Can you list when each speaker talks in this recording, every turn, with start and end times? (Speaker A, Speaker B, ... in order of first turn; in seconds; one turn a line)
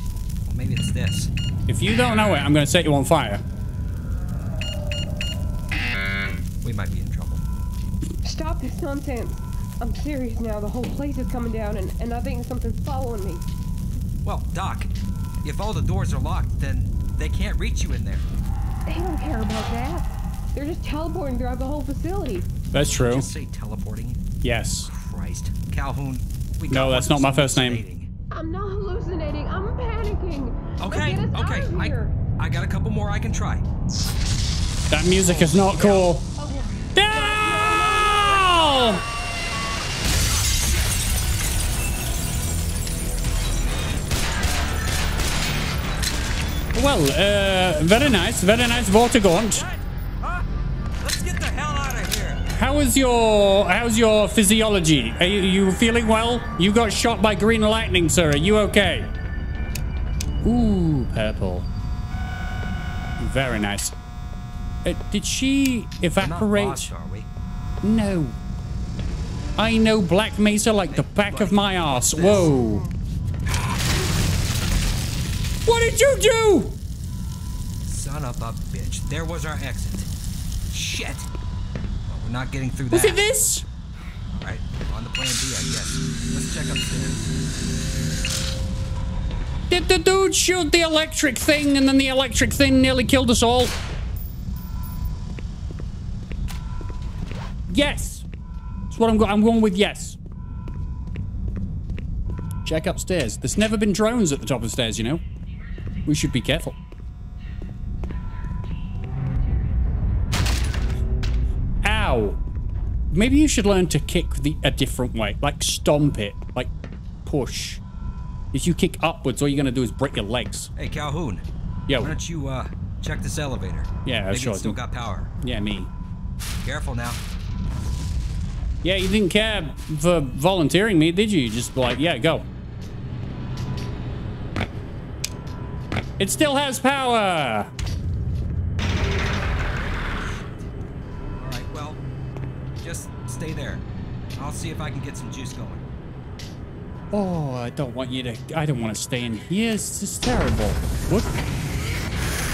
Speaker A: 0.5-1.3
Speaker B: 1.7-3.4
Speaker A: 6.6-7.4
Speaker C: 8.2-13.4
Speaker A: 14.2-14.9
Speaker A: 15.4-18.3
Speaker C: 18.9-22.5
Speaker B: 22.7-23.3
Speaker A: 23.0-24.2
Speaker B: 24.4-24.9
Speaker A: 24.9-28.1
Speaker B: 26.7-27.8
Speaker C: 28.3-32.1
Speaker A: 30.8-33.6
Speaker B: 34.9-36.3
Speaker A: 35.2-36.6
Speaker C: 36.4-36.7
Speaker B: 36.9-39.0
Speaker A: 37.2-38.6
Speaker B: 46.7-49.7
Speaker A: 49.5-50.5
Speaker A: 51.0-52.4
Speaker B: 52.5-59.1
Speaker B: 60.4-61.7
Speaker B: 63.2-64.0
Speaker B: 64.8-66.9
Speaker A: 66.2-67.3
Speaker B: 67.8-68.4
Speaker B: 69.6-72.9
Speaker A: 70.9-72.5
Speaker B: 75.7-76.8
Speaker A: 77.9-80.1
Speaker A: 80.7-81.3
Speaker A: 82.1-83.2
Speaker B: 82.9-83.7
Speaker A: 84.4-87.3
Speaker B: 89.7-93.7
Speaker B: 97.7-98.3
Speaker B: 98.9-100.2
Speaker B: 102.7-105.2
Speaker B: 106.1-106.8
Speaker B: 111.8-112.4
Speaker B: 113.1-116.7
Speaker B: 117.2-117.8
Speaker B: 118.5-120.7
Speaker A: 120.8-121.4
Speaker B: 121.9-122.2
Speaker A: 122.0-125.3
Speaker B: 124.0-124.8
Speaker B: 125.4-125.9
Speaker A: 126.6-127.2
Speaker B: 128.8-132.5
Speaker B: 136.2-137.7
Speaker A: 141.4-142.0
Speaker A: 142.8-143.8
Speaker A: 144.4-145.8
Speaker B: 147.1-151.3